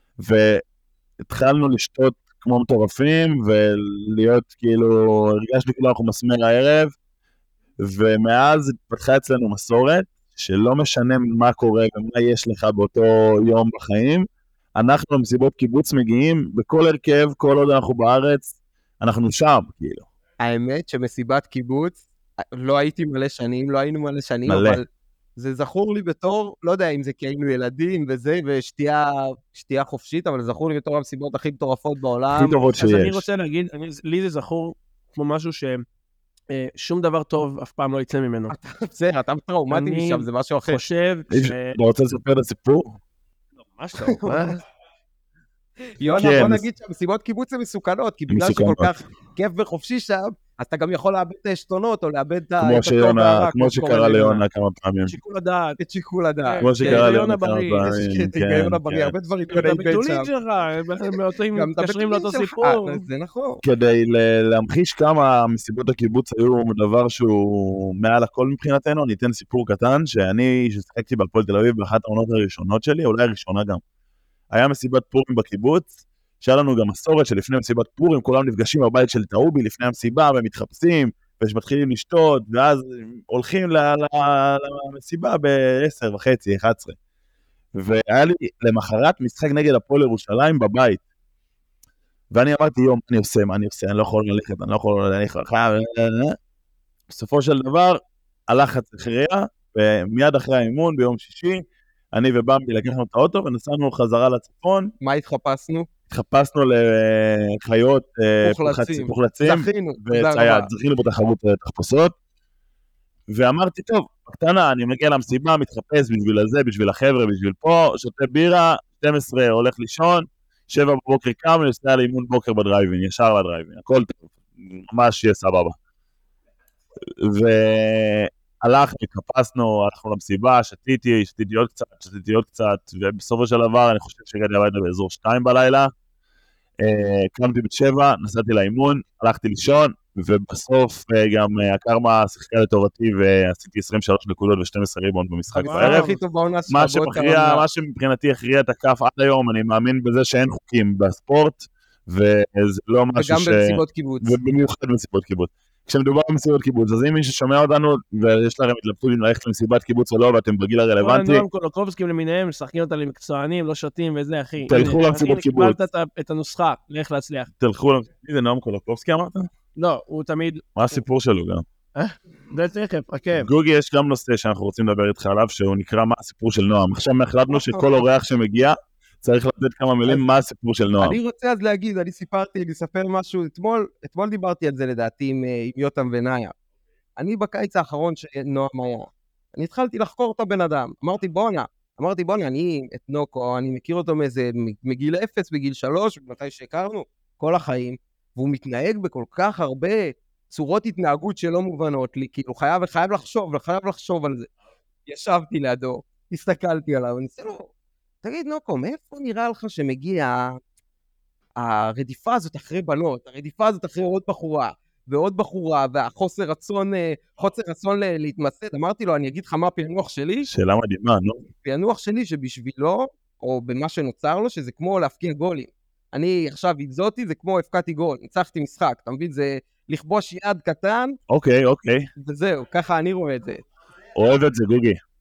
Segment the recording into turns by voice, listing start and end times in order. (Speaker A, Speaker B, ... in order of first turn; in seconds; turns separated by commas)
Speaker A: 0.2-0.6, Speaker A: 1.2-6.9, Speaker A: 7.8-14.2, Speaker A: 14.8-20.1, Speaker B: 20.4-32.6, Speaker A: 24.5-24.8, Speaker A: 32.3-33.2, Speaker C: 32.7-35.8, Speaker C: 36.5-38.5, Speaker B: 38.5-40.8, Speaker C: 39.7-41.8, Speaker A: 41.3-43.0, Speaker C: 43.7-44.6, Speaker B: 44.1-44.5, Speaker B: 46.0-54.4, Speaker A: 46.2-46.6, Speaker A: 48.3-48.9, Speaker A: 52.6-55.2, Speaker C: 55.1-55.8, Speaker B: 55.8-57.1, Speaker C: 56.5-57.9, Speaker A: 56.6-59.1, Speaker B: 57.8-60.3, Speaker C: 59.5-63.0, Speaker B: 61.5-63.6, Speaker A: 63.6-73.8, Speaker A: 74.5-87.0, Speaker A: 87.7-91.0, Speaker A: 92.3-96.3, Speaker A: 97.1-104.9, Speaker B: 105.0-105.9, Speaker A: 106.1-112.1, Speaker B: 108.4-110.7, Speaker A: 113.3-125.7, Speaker A: 127.2-135.9, Speaker A: 136.8-146.1, Speaker C: 145.6-146.2, Speaker B: 145.6-147.6, Speaker A: 146.7-161.4, Speaker B: 153.2-154.3, Speaker C: 161.0-167.5, Speaker A: 164.6-165.8, Speaker A: 167.6-169.5, Speaker C: 169.8-170.6, Speaker A: 170.8-171.6, Speaker C: 171.9-173.5, Speaker A: 173.4-181.2, Speaker B: 177.5-177.9, Speaker B: 181.0-186.5, Speaker B: 187.2-204.5, Speaker B: 205.1-207.7, Speaker B: 208.2-210.6, Speaker B: 211.6-220.5, Speaker A: 220.5-221.5, Speaker B: 221.6-231.2, Speaker A: 231.3-232.1, Speaker B: 232.2-233.6, Speaker A: 234.1-235.0